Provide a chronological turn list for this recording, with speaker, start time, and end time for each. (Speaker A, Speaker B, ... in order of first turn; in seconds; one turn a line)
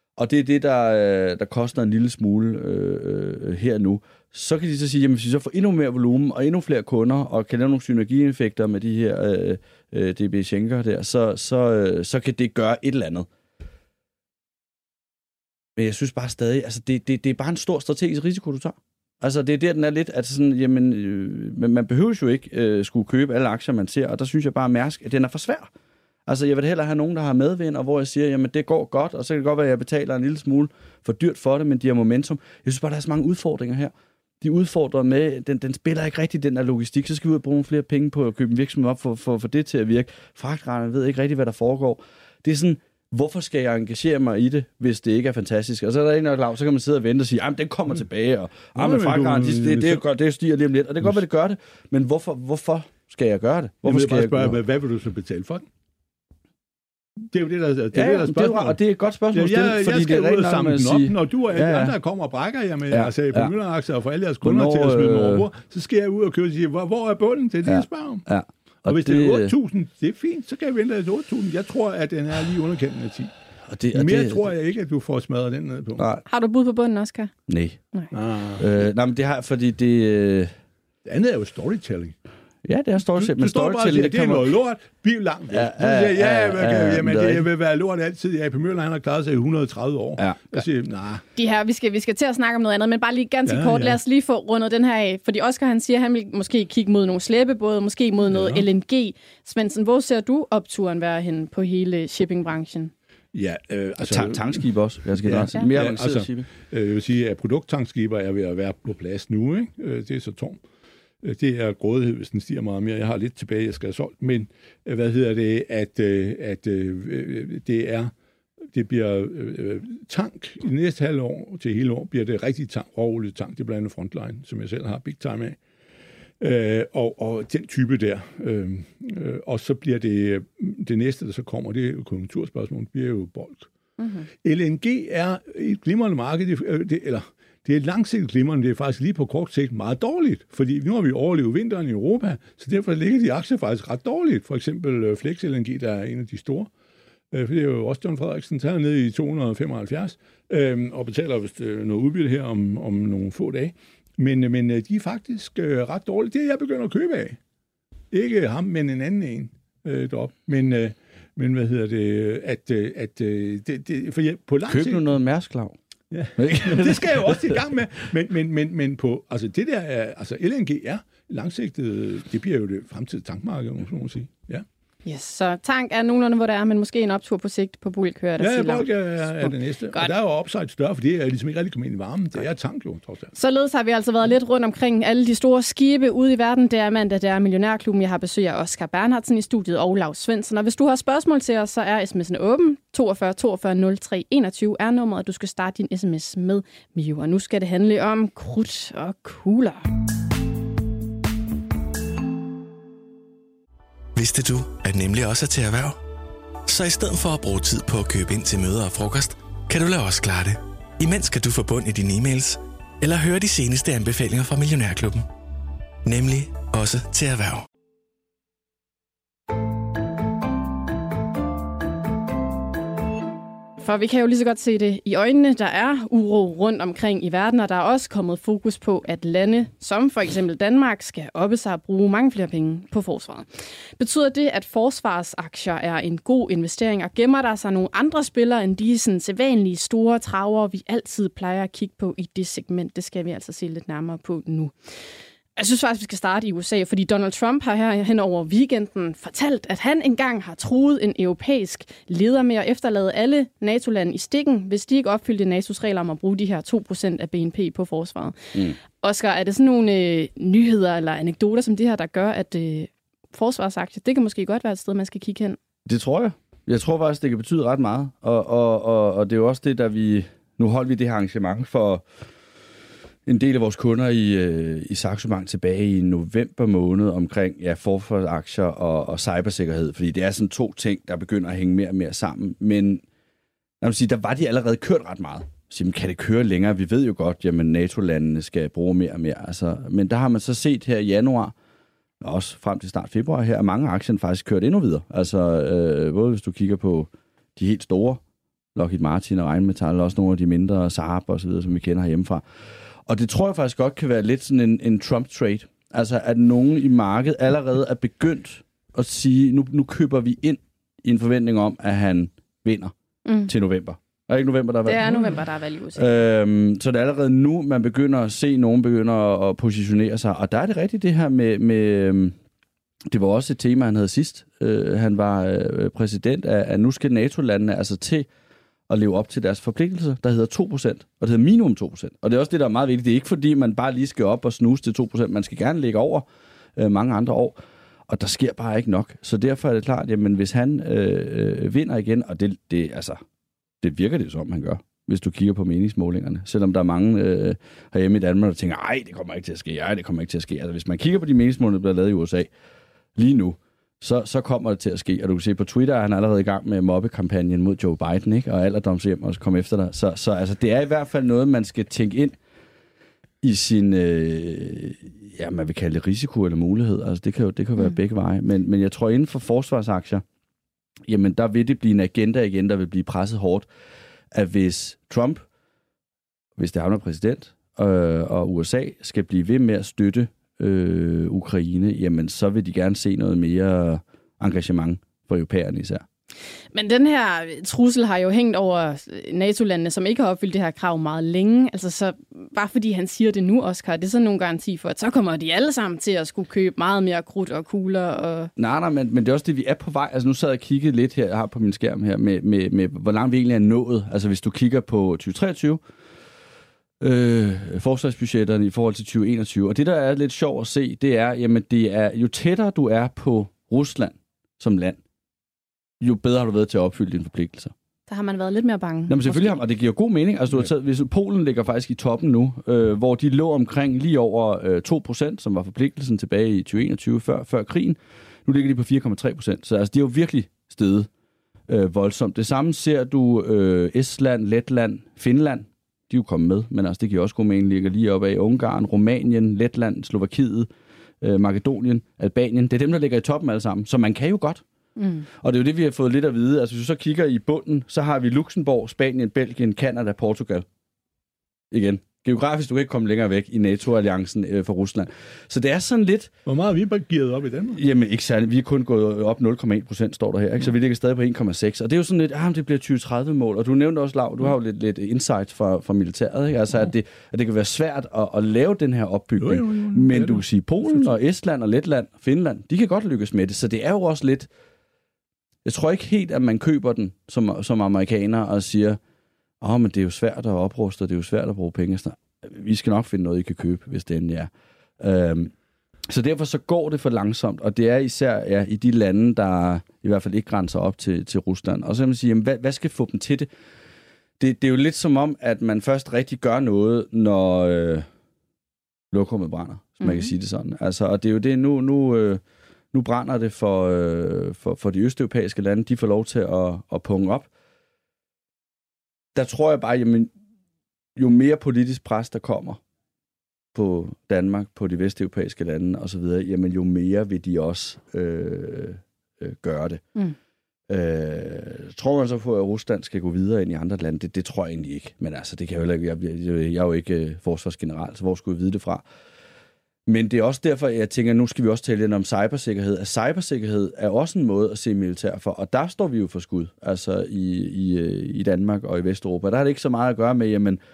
Speaker A: 0.2-13.3
Speaker A: 15.8-25.7
Speaker A: 26.3-54.6
Speaker B: 48.7-50.0
Speaker B: 53.8-55.6
Speaker B: 57.3-58.8
Speaker A: 57.9-62.0
Speaker B: 59.3-68.2
Speaker A: 62.9-63.5
Speaker A: 64.4-65.5
Speaker A: 67.6-69.5
Speaker B: 68.8-73.3
Speaker A: 73.7-74.5
Speaker B: 73.9-76.0
Speaker A: 76.0-76.2
Speaker C: 76.3-77.3
Speaker A: 77.5-77.8
Speaker B: 78.1-78.7
Speaker A: 78.6-80.5
Speaker B: 81.0-82.1
Speaker A: 82.6-84.5
Speaker B: 83.1-91.2
Speaker A: 85.5-87.5
Speaker A: 90.2-90.6
Speaker C: 91.3-102.9
Speaker B: 93.5-94.0
Speaker B: 98.3-98.7
Speaker B: 103.3-110.6
Speaker A: 104.0-106.5
Speaker B: 111.2-118.1
Speaker B: 118.7-125.6
Speaker B: 126.4-133.7
Speaker C: 134.0-134.3
Speaker B: 134.4-146.7
Speaker B: 147.3-157.4
Speaker B: 158.1-165.1
Speaker A: 164.7-165.7
Speaker B: 166.1-174.6
Speaker A: 166.4-167.6
Speaker C: 175.0-180.1
Speaker B: 178.4-183.3
Speaker C: 183.3-199.8
Speaker D: 204.1-206.0
Speaker D: 206.7-215.2
Speaker D: 216.0-217.7
Speaker C: 223.8-233.4
Speaker C: 234.0-244.7
Speaker C: 245.6-258.4
Speaker C: 259.0-265.6
Speaker A: 265.9-272.0
Speaker A: 273.2-283.0
Speaker A: 283.8-291.5
Speaker A: 292.2-298.2
Speaker A: 298.7-302.4
Speaker A: 303.1-312.9
Speaker C: 313.2-313.5
Speaker A: 313.5-315.3
Speaker C: 314.9-316.2
Speaker A: 315.9-322.4
Speaker A: 323.1-328.3
Speaker A: 328.9-337.6
Speaker A: 338.1-343.2
Speaker A: 343.8-352.5
Speaker A: 353.1-362.4
Speaker A: 363.4-370.2
Speaker A: 371.1-373.7
Speaker A: 374.3-375.4
Speaker A: 376.6-386.0
Speaker C: 386.7-398.5
Speaker A: 398.6-405.8
Speaker A: 407.0-415.0
Speaker A: 416.0-417.7
Speaker C: 418.1-419.6
Speaker A: 419.1-431.1
Speaker A: 431.7-440.7
Speaker A: 441.2-444.6
Speaker C: 445.0-445.3
Speaker A: 445.3-450.6
Speaker A: 451.7-456.3
Speaker B: 456.4-457.8
Speaker A: 457.7-474.5
Speaker B: 469.4-471.1
Speaker A: 475.6-479.0
Speaker A: 479.6-485.5
Speaker A: 486.1-493.5
Speaker A: 494.4-498.1
Speaker A: 499.1-502.4
Speaker C: 500.0-500.3
Speaker A: 502.9-507.5
Speaker A: 509.3-510.3
Speaker A: 511.1-512.8
Speaker A: 513.7-520.0
Speaker A: 520.9-529.0
Speaker A: 530.1-540.8